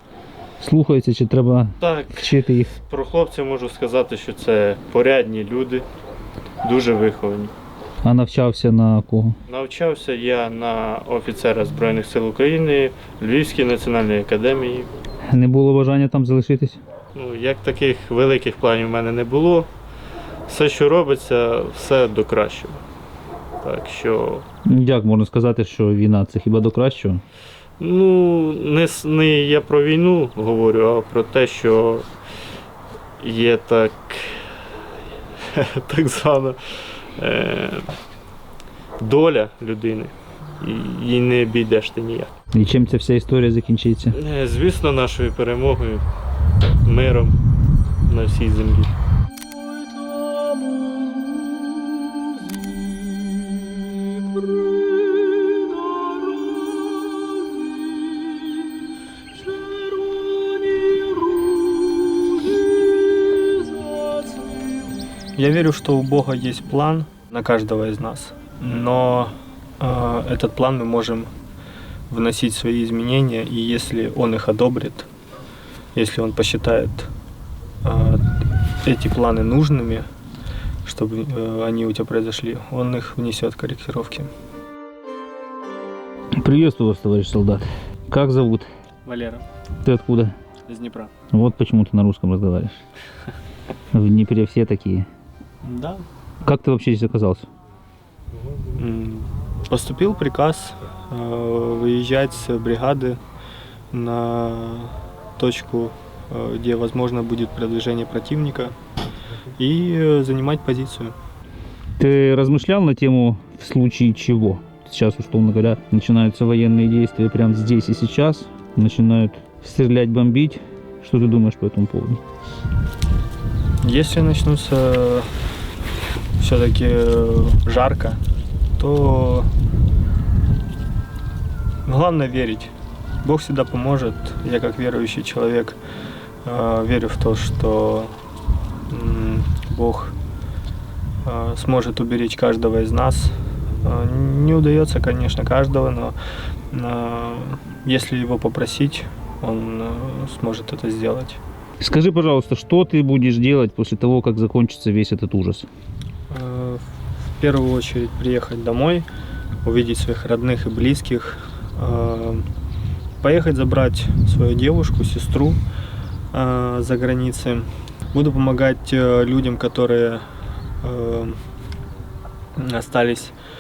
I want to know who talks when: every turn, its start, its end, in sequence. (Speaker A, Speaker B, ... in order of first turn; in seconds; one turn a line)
Speaker A: 0.6-2.7
Speaker B: 1.8-5.8
Speaker B: 6.6-7.5
Speaker A: 8.0-9.4
Speaker B: 9.5-14.9
Speaker A: 15.3-16.8
Speaker B: 17.1-19.7
Speaker B: 20.5-22.8
Speaker B: 23.6-24.4
Speaker A: 24.7-27.2
Speaker B: 27.8-32.0
Speaker B: 33.2-34.5
Speaker B: 35.5-37.9
Speaker B: 39.0-42.3
Speaker A: 42.5-44.1
Speaker B: 44.1-46.0
Speaker B: 46.8-47.3
Speaker B: 48.1-48.9
Speaker C: 65.3-71.3
Speaker C: 72.1-75.0
Speaker C: 75.9-77.1
Speaker C: 77.8-78.2
Speaker C: 78.8-80.1
Speaker C: 80.8-84.3
Speaker A: 86.4-88.7
Speaker C: 89.0-89.4
Speaker A: 89.8-90.3
Speaker C: 90.7-91.1
Speaker A: 91.3-92.8
Speaker A: 93.9-95.1
Speaker C: 95.6-96.0
Speaker A: 96.4-97.5
Speaker C: 98.8-103.2
Speaker C: 103.9-108.7
Speaker C: 109.6-111.1
Speaker A: 112.0-122.2
Speaker C: 123.8-125.3
Speaker C: 126.4-128.2
Speaker C: 128.8-129.5
Speaker C: 131.8-132.7
Speaker C: 133.2-135.8
Speaker C: 136.4-138.1
Speaker C: 138.9-140.1
Speaker C: 141.2-143.3
Speaker C: 143.8-146.1
Speaker C: 146.7-151.4
Speaker A: 151.8-155.7
Speaker C: 156.3-156.8
Speaker C: 157.4-159.1
Speaker C: 159.6-162.4
Speaker C: 163.2-165.6
Speaker C: 166.3-170.2
Speaker C: 170.8-171.4
Speaker C: 172.6-173.3